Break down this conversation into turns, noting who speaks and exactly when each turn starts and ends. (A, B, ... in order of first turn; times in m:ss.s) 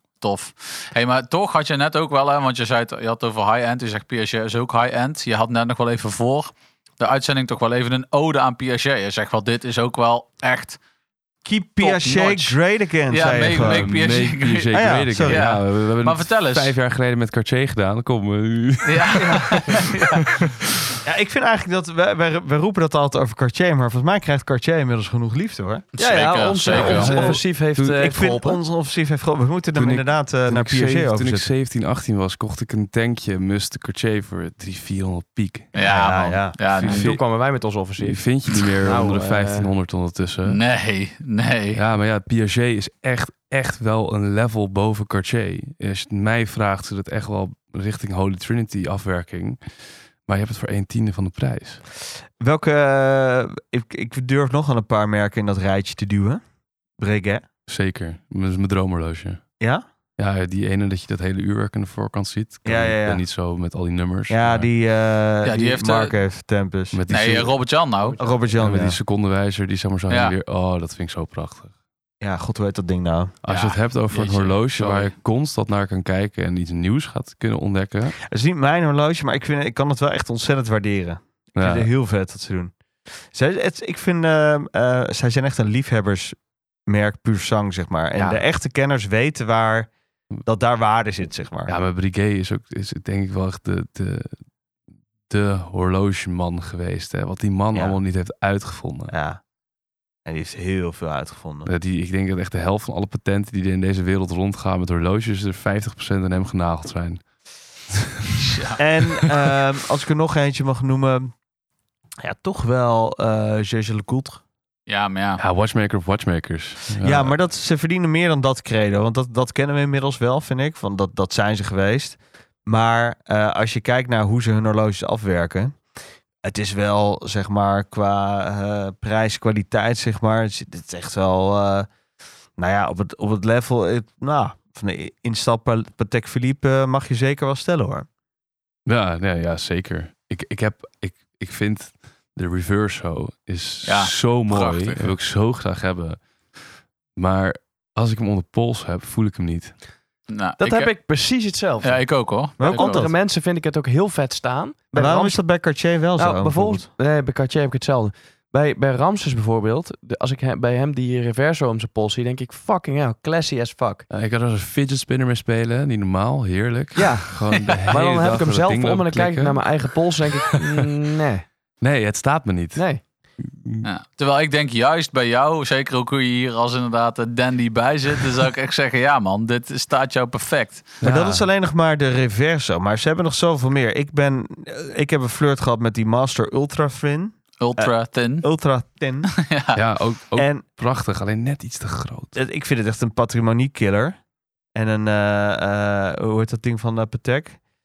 0:00.2-0:10.8 A
0:11.4-0:13.9 B
0:11.8-0:12.6 A
0:13.1-0:16.7 A
0:13.6-0:19.7 C
0:14.7-0:15.4 B
0:18.8-0:20.4 A
0:19.2-0:19.6 B
0:21.0-0:25.9 B
0:26.0-0:27.4 A
0:26.0-0:28.6 D
0:26.7-0:27.4 B
0:26.8-0:28.0 C
0:27.9-0:31.5 B
0:29.7-0:35.7 C
0:35.7-0:37.2 A
0:35.8-0:36.6 B
0:36.6-0:37.3 C
0:36.8-0:39.7 D
0:38.0-0:40.6 C
0:40.4-0:41.8 A
0:41.7-0:51.8 C
0:52.4-0:56.4 B
0:57.0-0:57.4 B
0:57.7-0:59.4 C
1:00.2-1:04.7 C
1:02.6-1:03.2 B
1:04.3-1:07.0 B
1:05.4-1:06.1 A
1:06.9-1:07.6 C
1:07.1-1:08.2 A
1:08.2-1:09.0 B
1:08.5-1:11.7 C
1:10.1-1:10.4 A
1:12.2-1:13.3 B
1:13.4-1:18.2 C
1:13.4-1:15.1 A
1:18.3-1:29.9 B
1:21.6-1:21.9 C
1:28.2-1:28.4 C
1:30.4-1:31.8 B
1:31.7-1:34.4 C
1:35.3-1:39.1 C
1:37.7-1:38.0 B
1:39.1-1:39.4 B
1:40.2-1:41.7 B
1:41.6-1:47.2 C
1:48.4-1:48.8 A
1:48.8-1:51.3 B
1:52.2-1:54.4 B
1:54.9-1:55.4 A
1:55.4-1:57.4 C
1:57.0-2:05.8 B
2:06.4-2:11.9 B
2:12.6-2:18.1 B
2:18.8-2:26.6 C
2:23.8-2:25.1 A
2:27.1-2:29.8 C
2:30.3-2:31.1 A
2:30.6-2:32.0 D
2:31.8-2:33.0 A
2:32.6-2:33.1 B
2:32.6-2:35.4 D
2:34.9-2:36.9 B
2:36.2-2:44.0 D
2:44.1-2:49.8 C
2:47.0-2:51.5 D
2:51.8-2:53.9 C
2:52.7-2:53.0 D
2:53.8-3:00.9 A
3:01.0-3:01.5 C
3:01.0-3:09.3 B
3:07.6-3:08.5 A
3:09.3-3:09.8 A
3:09.7-3:12.4 C
3:10.3-3:10.6 B
3:12.3-3:14.2 B
3:14.7-3:17.6 B